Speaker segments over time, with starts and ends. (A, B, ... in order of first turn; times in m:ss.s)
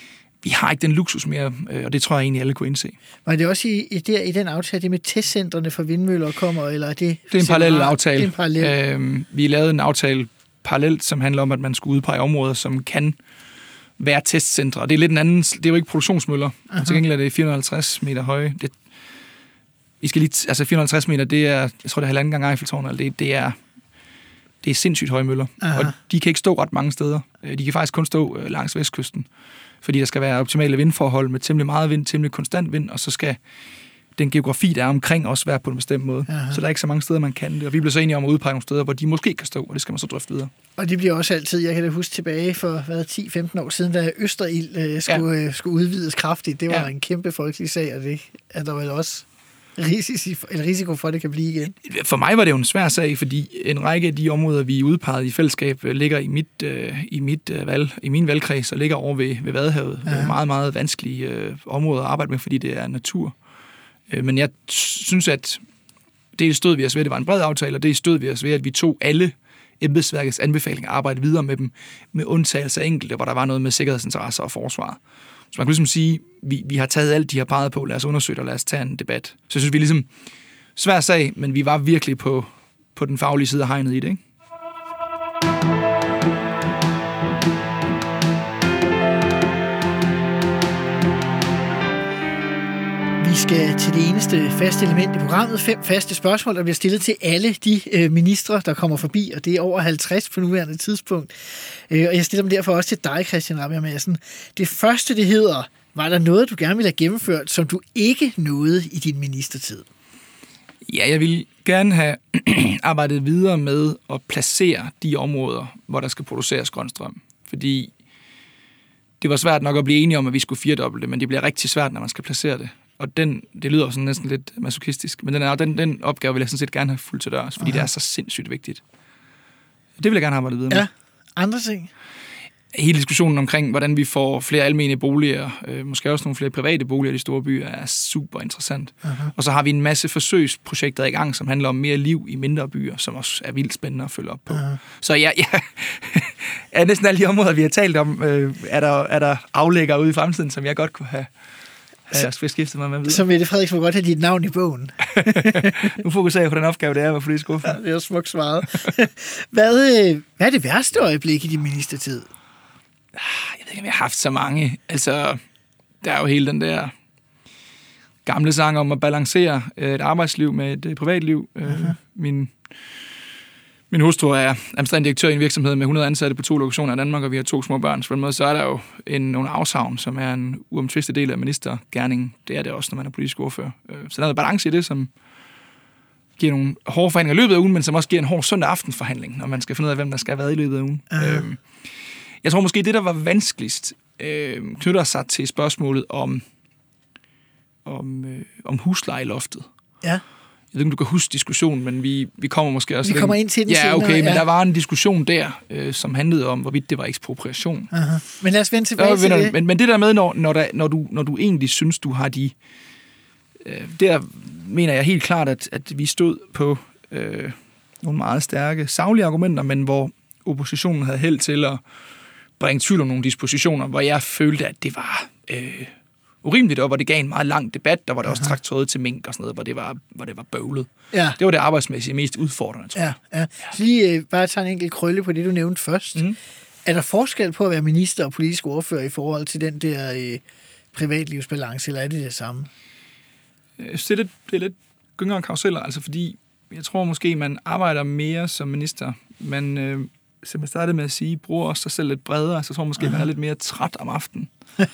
0:00.4-0:03.0 A
0:03.2-0:08.8 B
0:07.3-0:13.2 A
0:14.0-0:18.8 A
0:20.0-0:23.6 A
0:24.6-0:29.3 A
0:25.6-0:25.9 B
0:29.8-0:33.4 A
0:34.2-0:40.5 A
0:36.3-0:36.6 B
0:40.8-0:49.3 B
0:49.8-0:51.8 B
0:51.8-1:03.4 A
1:00.1-1:00.3 B
1:04.1-1:05.6 A
1:06.3-1:15.0 A
1:15.5-1:20.1 A
1:20.8-1:24.2 A
1:33.2-1:49.9 B
1:50.9-1:57.9 A
1:59.2-2:08.8 A
2:07.6-2:07.9 B
2:10.0-2:10.9 A
2:10.7-2:11.9 B
2:12.7-2:31.3 A
2:19.0-2:19.3 B
2:24.5-2:24.8 B
2:32.1-2:33.3 A
2:33.1-2:35.9 B
2:35.2-2:37.8 A
2:37.6-2:42.3 B
2:43.1-2:45.4 A
2:46.0-2:46.9 A
2:48.2-2:52.5 A
2:51.7-2:51.9 B
2:53.9-3:05.1 A
3:06.4-3:11.6 A
3:11.1-3:11.4 B
3:12.4-3:16.4 A
3:17.8-3:19.7 A
3:20.7-3:27.9 A
3:23.0-3:24.4 B
3:27.9-3:29.6 B
3:29.0-3:32.6 A
3:33.6-3:41.8 A
3:42.6-3:53.1 A
3:53.0-3:56.2 B
3:56.8-4:00.4 B
4:00.9-4:02.7 B
4:03.8-4:14.5 A